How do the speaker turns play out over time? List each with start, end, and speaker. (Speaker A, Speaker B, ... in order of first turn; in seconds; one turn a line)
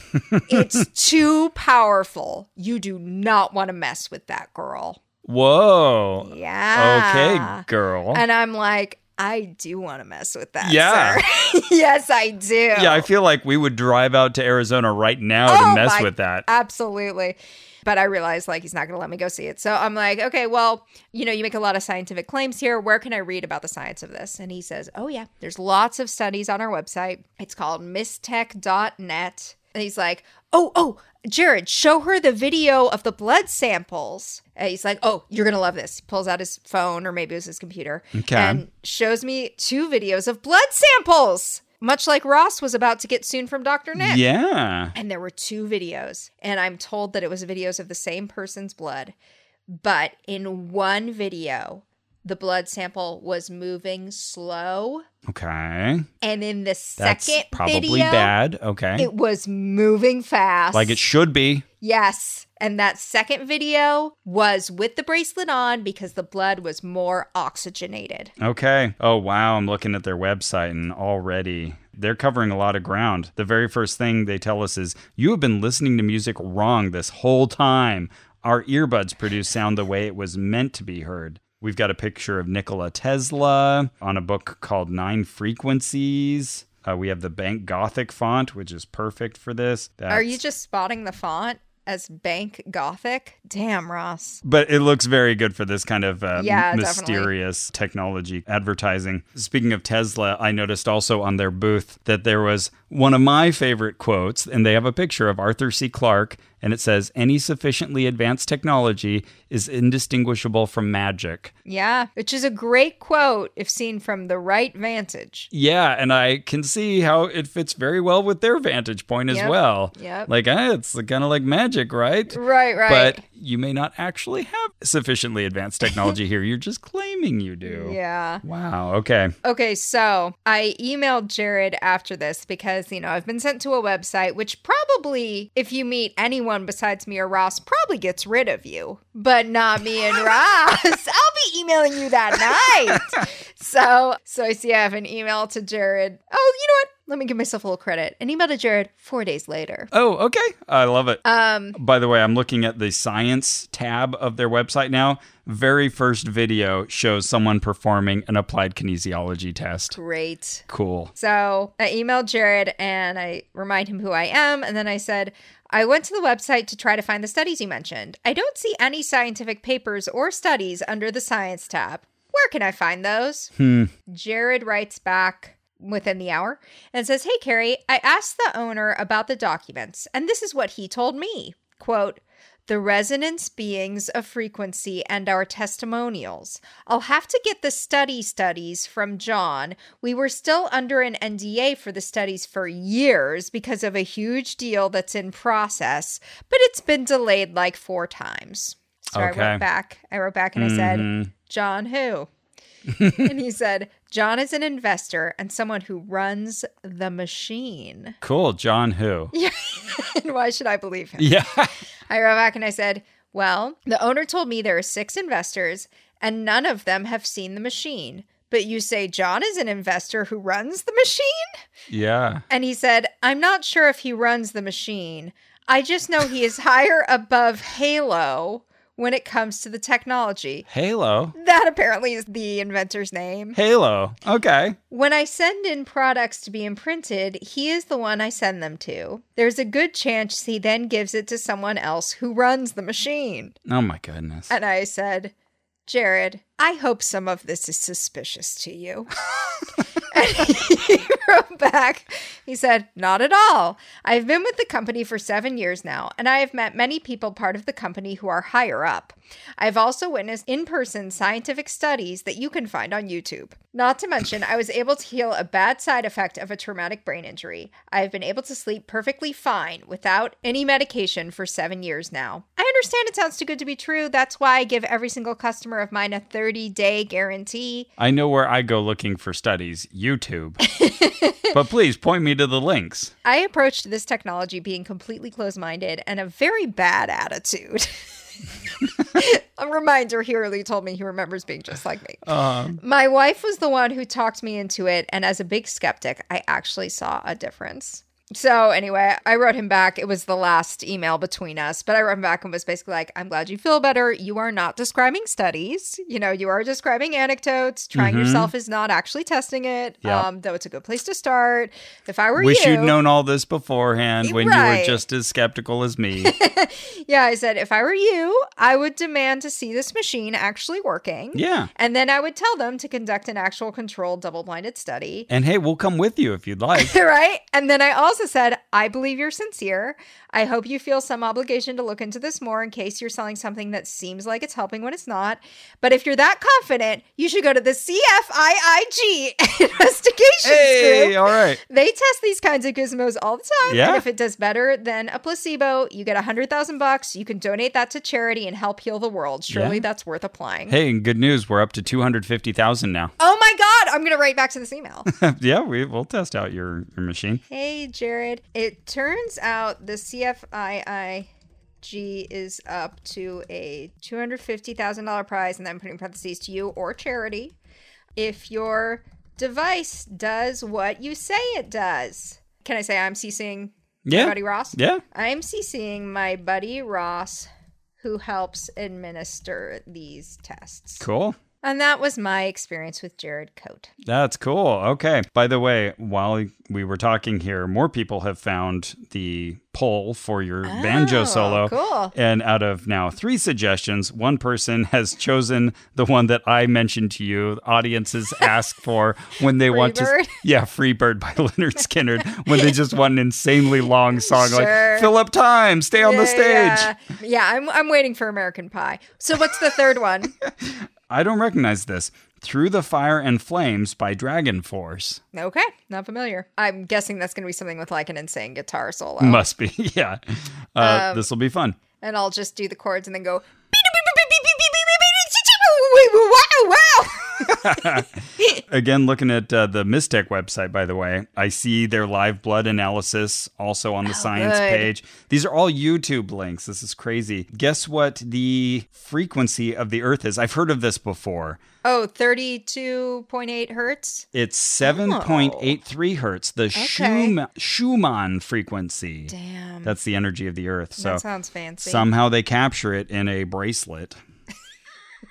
Speaker A: 0.1-0.8
Speaker B: 0.5-5.0
Speaker A: 5.2-8.2
Speaker B: 6.2-13.1
Speaker A: 10.6-11.2
Speaker A: 12.7-16.5
Speaker B: 15.5-44.2
Speaker A: 38.1-38.6
Speaker A: 44.0-44.9
Speaker B: 44.9-49.1
Speaker B: 49.7-55.0
Speaker A: 55.3-56.1
Speaker B: 56.2-58.3
Speaker A: 57.0-59.1
Speaker B: 59.0-61.0
Speaker A: 60.7-61.6
Speaker B: 61.8-68.3
Speaker A: 68.4-90.4
Speaker B: 90.1-94.4
Speaker A: 94.4-111.5
Speaker B: 96.4-97.3
Speaker B: 111.7-115.5
Speaker A: 115.5-129.3
Speaker B: 119.3-120.3
Speaker B: 122.3-123.2
Speaker B: 127.6-128.4
Speaker B: 129.4-149.9
Speaker A: 149.9-151.2
Speaker B: 151.2-151.8
Speaker A: 151.7-160.0
Speaker B: 159.9-160.6
Speaker A: 160.7-161.1
Speaker B: 161.2-173.5
Speaker A: 173.6-173.9
Speaker B: 174.1-202.3
Speaker A: 199.1-199.6
Speaker A: 200.6-201.3
Speaker A: 202.9-203.3
Speaker B: 203.1-208.2
Speaker A: 208.2-209.3
Speaker B: 209.3-211.4
Speaker A: 211.2-211.7
Speaker B: 212.1-221.5
Speaker A: 221.9-222.4
Speaker B: 222.5-230.7
Speaker A: 230.7-231.3
Speaker B: 231.3-233.6
Speaker A: 233.6-234.8
Speaker B: 234.9-243.6
Speaker A: 243.7-244.5
Speaker B: 244.5-245.3
Speaker B: 245.9-249.1
Speaker B: 250.1-277.9
Speaker A: 278.0-280.6
Speaker B: 280.6-281.5
Speaker A: 281.5-283.1
Speaker B: 283.2-287.9
Speaker B: 289.1-292.2
Speaker A: 292.3-292.8
Speaker B: 292.8-313.0
Speaker A: 307.9-308.5
Speaker A: 312.4-316.3
Speaker B: 314.2-315.0
Speaker B: 316.2-325.3
Speaker A: 321.3-321.7
Speaker A: 325.3-326.9
Speaker B: 326.8-350.8
Speaker A: 340.4-341.6
Speaker A: 343.7-344.1
Speaker A: 349.5-349.9
Speaker A: 350.7-353.1
Speaker B: 353.2-355.1
Speaker A: 355.1-357.4
Speaker B: 357.5-361.3
Speaker B: 361.8-367.6
Speaker B: 368.2-377.5
Speaker A: 374.1-375.0
Speaker B: 378.0-381.0
Speaker A: 381.0-381.4
Speaker B: 381.6-383.9
Speaker A: 384.1-406.9
Speaker B: 390.6-392.1
Speaker B: 399.7-400.4
Speaker B: 404.2-405.1
Speaker B: 406.0-410.3
Speaker A: 410.5-415.2
Speaker B: 415.3-419.4
Speaker A: 419.2-421.8
Speaker B: 420.8-421.3
Speaker B: 422.0-428.5
Speaker A: 427.5-428.1
Speaker A: 428.7-441.6
Speaker B: 434.1-434.9
Speaker B: 441.8-444.3
Speaker A: 444.3-451.2
Speaker B: 444.8-445.8
Speaker B: 446.8-447.4
Speaker B: 449.3-449.9
Speaker B: 451.0-452.1
Speaker A: 451.8-454.2